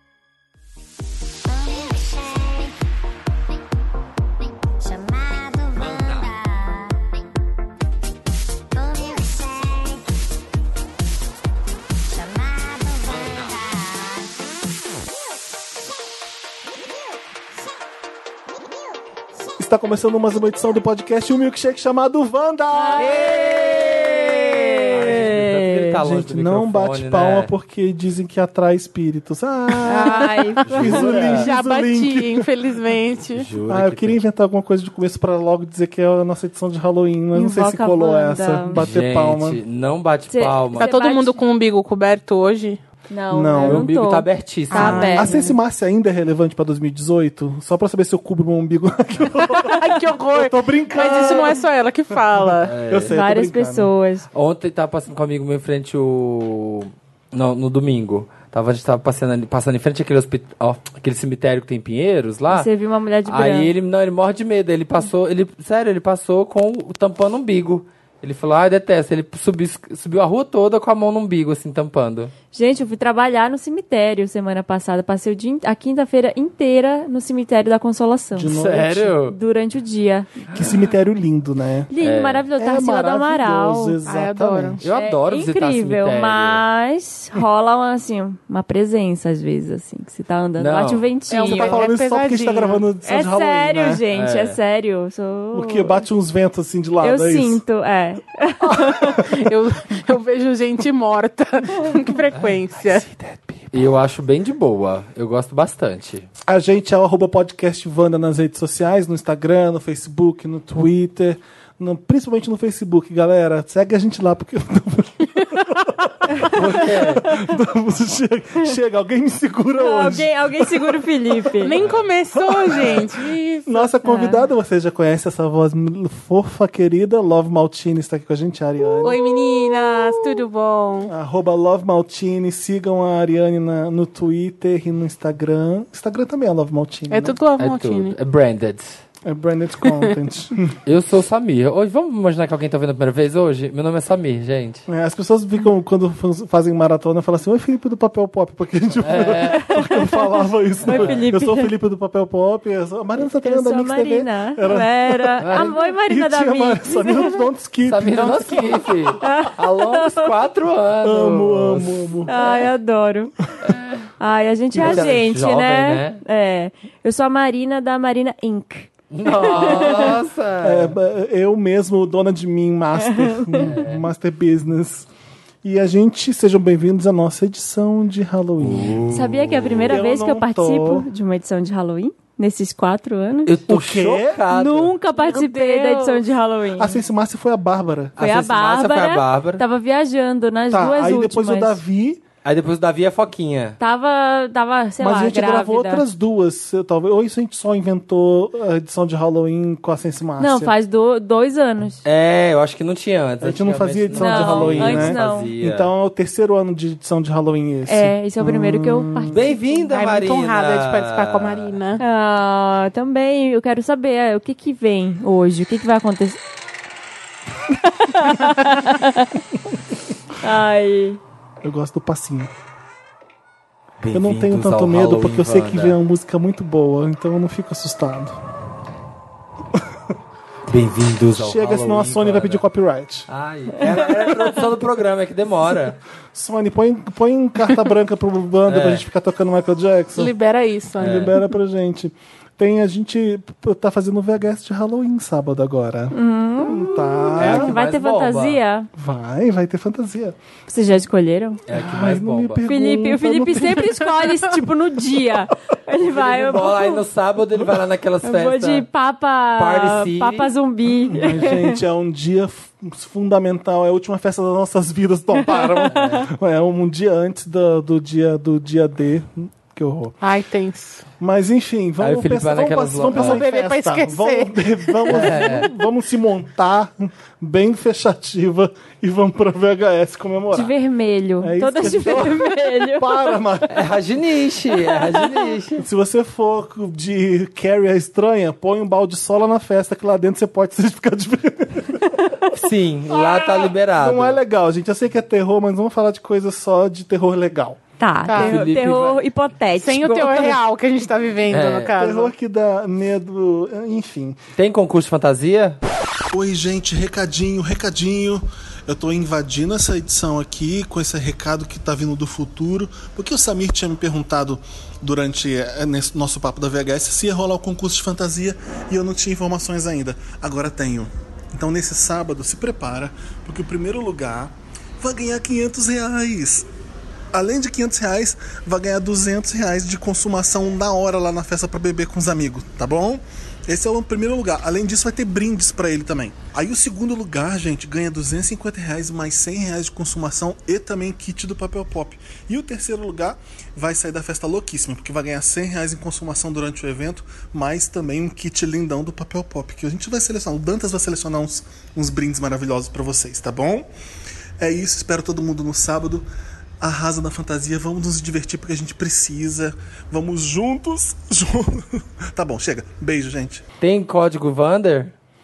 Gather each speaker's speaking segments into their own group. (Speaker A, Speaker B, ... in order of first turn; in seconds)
Speaker A: 1.9-2.5, 4.8-5.7, 8.9-9.6
Speaker B: 5.9-6.2, 23.5-23.9, 24.9-27.5, 30.6-31.5, 33.4-34.2, 38.7-40.9, 43.6-45.2, 52.6-53.2, 54.3-62.7, 63.3-72.3, 78.5-79.4, 80.5-80.8, 82.0-82.5, 84.8-86.6, 90.6-91.1, 94.1-94.6, 103.7-106.3, 116.5-117.3, 121.8-122.1, 137.6-139.0, 140.9-144.8, 149.0-149.7, 150.8-151.2, 155.4-155.8, 157.9-162.1, 163.6-164.1, 164.8-166.2, 169.1-170.9, 173.7-174.1, 178.6-179.9, 183.5-184.9, 188.2-189.6, 192.4-193.8, 202.0-205.9, 209.3-211.8, 224.0-226.0, 230.7-232.6, 233.3-236.0, 238.7-239.0, 241.0-241.4, 247.3-248.6, 251.7-252.7, 256.0-258.9, 259.6-260.5, 265.9-266.3, 272.0-273.4, 275.1-275.7, 283.7-285.9, 292.5-294.4, 298.3-299.2, 301.5-301.9, 304.6-305.8, 363.8-365.1
Speaker C: 19.4-23.6, 26.0-32.5, 33.6-39.6, 43.3-43.9, 45.1-51.6, 52.3-53.9, 78.3-79.2, 80.5-81.9, 82.6-84.8, 91.4-94.0, 95.5-97.6, 98.6-99.5, 102.8-103.9, 106.5-121.5, 122.3-130.3, 131.1-137.4, 139.2-140.8, 144.9-159.2, 161.0-162.7, 164.7-165.2, 170.6-175.1, 175.6-179.1, 179.9-181.1, 183.7-184.4, 186.8-188.2, 190.7-192.2, 195.0-200.7, 203.4-209.5, 221.6-222.5, 224.1-228.4, 231.3-233.3, 236.3-240.3, 241.0-247.8, 249.0-250.4, 251.7-254.4, 261.1-270.2, 271.2-280.7, 281.4-283.8, 285.8-292.5, 293.1-297.8, 302.0-304.4, 306.3-326.7, 327.3-353.9, 354.6-356.2, 356.8-363.6
Speaker D: 22.7-26.0, 29.9-31.0, 37.3-38.8, 40.3-41.4, 43.1-45.4, 53.1-54.3, 62.5-63.7, 72.5-78.6, 79.3-80.5, 81.9-84.0, 84.9-91.8, 93.0-96.0, 97.0-99.2, 119.8-121.8, 124.0-124.5, 149.5-150.2, 150.8-151.7, 153.2-157.4, 159.2-160.3, 162.3-163.3, 164.2-170.2, 173.1-173.7, 179.1-183.6, 184.5-187.0, 188.2-191.8, 193.8-196.1, 200.4-202.0, 204.1-205.5, 207.9-209.6, 212.0-216.4, 217.7-219.3, 220.4-221.2, 246.1-248.9, 250.7-251.6, 252.6-257.0, 258.2-261.8, 280.5-283.4, 284.9-285.4, 298.0-300.6
Speaker E: 29.9-33.5, 40.8-42.8, 44.7-45.6, 49.4-52.7, 84.1-84.8, 91.3-92.8, 99.2-103.0, 121.6-123.9, 129.0-131.1, 137.1-138.2, 139.9-140.2, 185.2-186.2, 209.9-212.0, 240.2-241.3, 270.2-271.1, 273.1-275.2, 298.2-298.6, 299.8-302.3